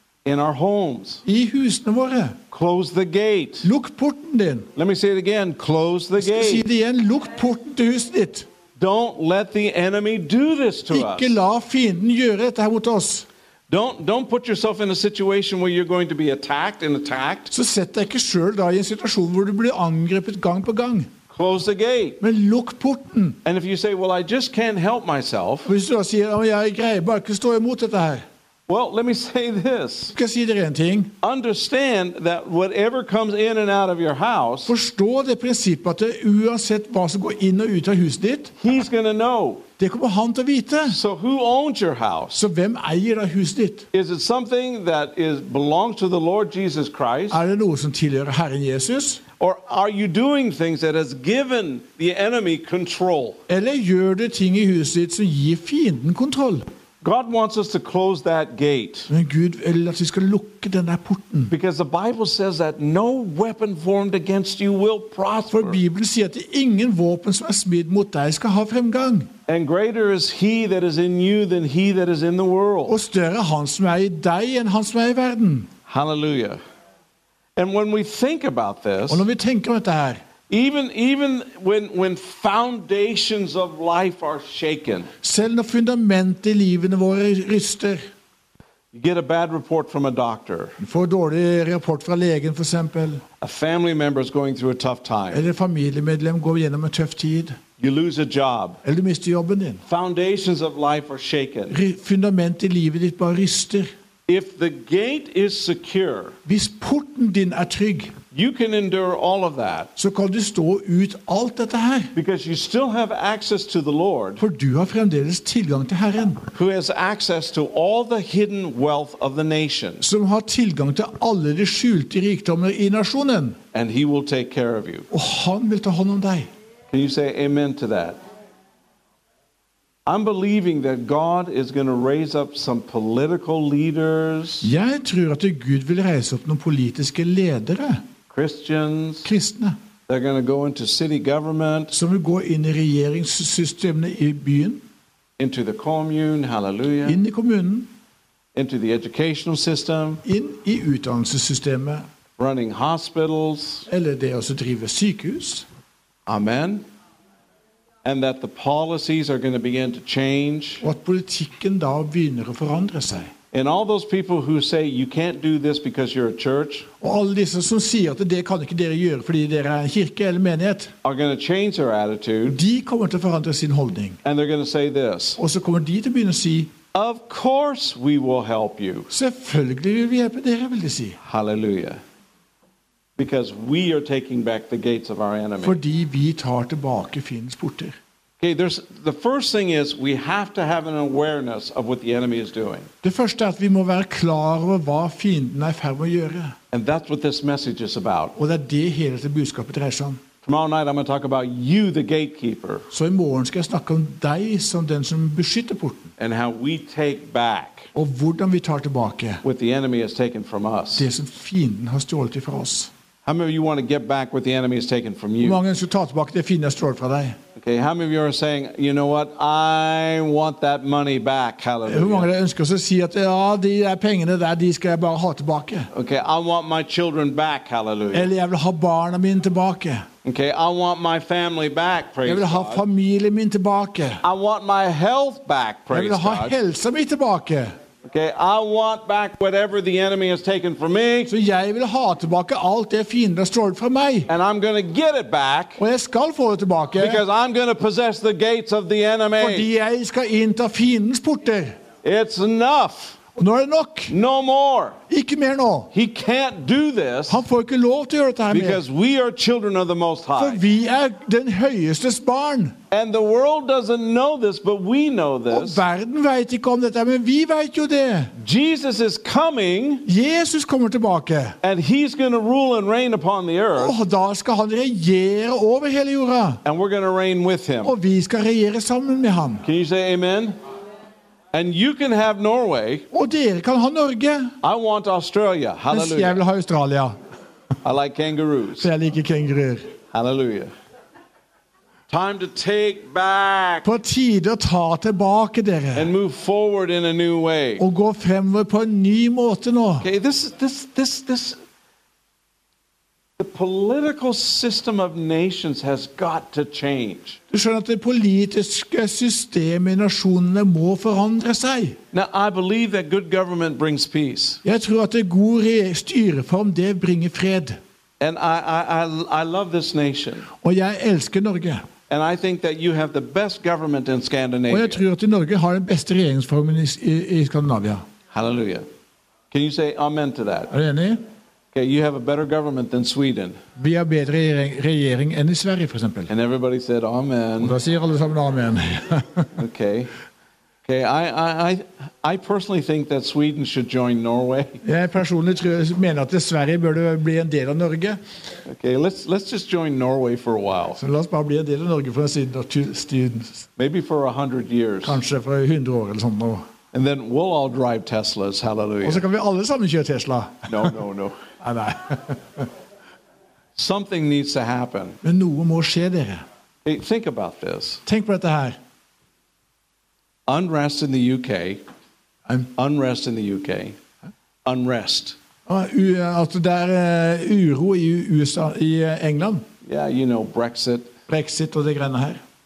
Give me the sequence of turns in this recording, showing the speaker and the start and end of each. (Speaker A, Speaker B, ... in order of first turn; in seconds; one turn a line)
Speaker A: 0.2-1.2
Speaker B: 1.2-2.4
Speaker A: 2.5-3.7
Speaker B: 3.6-4.7
Speaker A: 4.8-6.6
Speaker B: 6.2-8.5
Speaker A: 8.8-11.4
Speaker B: 10.9-13.2
Speaker A: 13.7-17.5
Speaker B: 17.5-21.1
Speaker A: 21.3-22.2
Speaker B: 22.2-23.4
Speaker A: 23.4-25.7
Speaker B: 25.6-28.2
Speaker A: 28.7-30.1
Speaker B: 30.1-31.1
Speaker A: 31.2-34.7
Speaker B: 34.6-38.5
Speaker A: 38.6-39.6
Speaker B: 39.8-41.0
Speaker A: 40.9-42.4
Speaker B: 42.3-43.9
Speaker A: 43.9-47.4
Speaker B: 47.3-49.2
Speaker A: 49.4-53.4
Speaker B: 53.5-56.6
Speaker A: 57.0-59.1
Speaker B: 59.1-61.5
Speaker A: 61.5-65.8
Speaker B: 65.5-69.3
Speaker A: 69.5-73.0
Speaker B: 72.9-75.7
Speaker A: 75.9-76.6
Speaker A: 77.5-79.2
Speaker B: 79.1-80.2
Speaker A: 80.5-85.1
Speaker B: 85.2-88.0
Speaker A: 88.9-90.8
Speaker B: 90.8-93.2
Speaker A: 93.4-95.4
Speaker B: 95.3-97.5
Speaker A: 97.8-98.8
Speaker B: 98.8-99.8
Speaker A: 99.8-101.8
Speaker B: 101.7-103.9
Speaker A: 104.3-106.3
Speaker B: 106.5-108.1
Speaker A: 108.3-109.9
Speaker B: 110.0-112.1
Speaker A: 112.1-114.4
Speaker B: 114.4-116.4
Speaker A: 116.5-120.0
Speaker B: 120.0-123.6
Speaker A: 123.7-125.1
Speaker B: 125.1-126.5
Speaker A: 126.9-128.2
Speaker A: 130.1-134.7
Speaker B: 134.6-138.0
Speaker A: 138.3-139.3
Speaker B: 139.2-139.8
Speaker A: 140.1-141.9
Speaker B: 141.9-144.8
Speaker A: 145.4-147.2
Speaker B: 147.0-147.9
Speaker A: 148.5-150.2
Speaker B: 150.2-152.1
Speaker A: 152.4-153.9
Speaker B: 153.9-155.7
Speaker A: 156.2-156.8
Speaker A: 158.0-160.8
Speaker B: 160.8-163.3
Speaker A: 163.5-166.9
Speaker B: 167.0-170.9
Speaker A: 171.0-172.6
Speaker B: 172.5-174.2
Speaker A: 174.2-175.4
Speaker B: 175.4-176.7
Speaker A: 176.9-179.1
Speaker B: 179.1-181.2
Speaker A: 181.2-182.0
Speaker A: 183.2-185.8
Speaker B: 185.6-187.9
Speaker A: 188.4-192.9
Speaker B: 193.0-196.5
Speaker A: 196.7-198.3
Speaker B: 198.3-200.2
Speaker A: 200.4-202.9
Speaker B: 202.9-206.1
Speaker A: 206.2-207.9
Speaker B: 207.9-209.4
Speaker A: 209.4-211.1
Speaker B: 210.9-212.9
Speaker A: 213.2-215.6
Speaker B: 215.4-217.4
Speaker A: 217.6-222.3
Speaker B: 221.8-225.9
Speaker A: 225.9-228.3
Speaker B: 228.1-230.1
Speaker A: 230.2-232.8
Speaker B: 232.2-234.2
Speaker A: 234.2-236.5
Speaker B: 235.9-237.7
Speaker A: 238.0-241.3
Speaker B: 241.3-244.3
Speaker A: 244.3-245.8
Speaker B: 245.8-247.2
Speaker A: 247.0-249.7
Speaker B: 249.4-251.8
Speaker A: 252.0-253.2
Speaker B: 253.3-254.1
Speaker A: 254.1-255.0
Speaker B: 255.1-255.9
Speaker A: 255.9-257.4
Speaker B: 257.3-258.8
Speaker A: 258.5-260.6
Speaker B: 260.4-262.8
Speaker A: 262.9-265.8
Speaker B: 265.5-268.3
Speaker A: 268.4-270.1
Speaker B: 270.0-271.6
Speaker A: 271.6-273.9
Speaker B: 273.7-276.6
Speaker A: 276.6-277.9
Speaker B: 277.8-279.6
Speaker A: 279.6-280.6
Speaker A: 281.5-283.1
Speaker B: 283.1-284.5
Speaker A: 284.6-286.4
Speaker B: 285.9-287.1
Speaker A: 287.8-288.9
Speaker B: 288.8-289.9
Speaker A: 290.1-290.7
Speaker A: 292.1-293.9
Speaker B: 293.8-296.1
Speaker A: 295.9-297.8
Speaker B: 297.8-300.1
Speaker A: 300.0-301.6
Speaker A: 303.4-307.4
Speaker B: 307.5-312.0
Speaker A: 312.1-314.6
Speaker B: 314.6-317.8
Speaker A: 318.2-320.5
Speaker B: 320.6-321.9
Speaker A: 322.1-325.0
Speaker B: 324.7-328.0
Speaker A: 328.3-328.8
Speaker A: 329.5-330.7
Speaker B: 330.7-331.2
Speaker A: 331.7-333.6
Speaker B: 333.8-336.3
Speaker A: 336.3-337.7
Speaker B: 337.6-339.5
Speaker A: 339.6-340.1
Speaker A: 340.8-344.8
Speaker B: 344.8-348.2
Speaker A: 348.6-351.0
Speaker B: 351.0-353.7
Speaker A: 353.8-355.2
Speaker B: 355.0-356.6
Speaker A: 356.9-359.2
Speaker B: 359.0-360.9
Speaker A: 360.7-361.4
Speaker B: 361.6-362.7
Speaker A: 363.8-365.2
Speaker B: 365.2-366.4
Speaker A: 366.8-368.0
Speaker B: 368.1-368.8
Speaker A: 370.5-371.8
Speaker B: 372.4-372.7
Speaker A: 372.8-373.9
Speaker A: 374.6-375.4
Speaker B: 375.7-379.6
Speaker A: 379.8-381.1
Speaker B: 381.3-382.4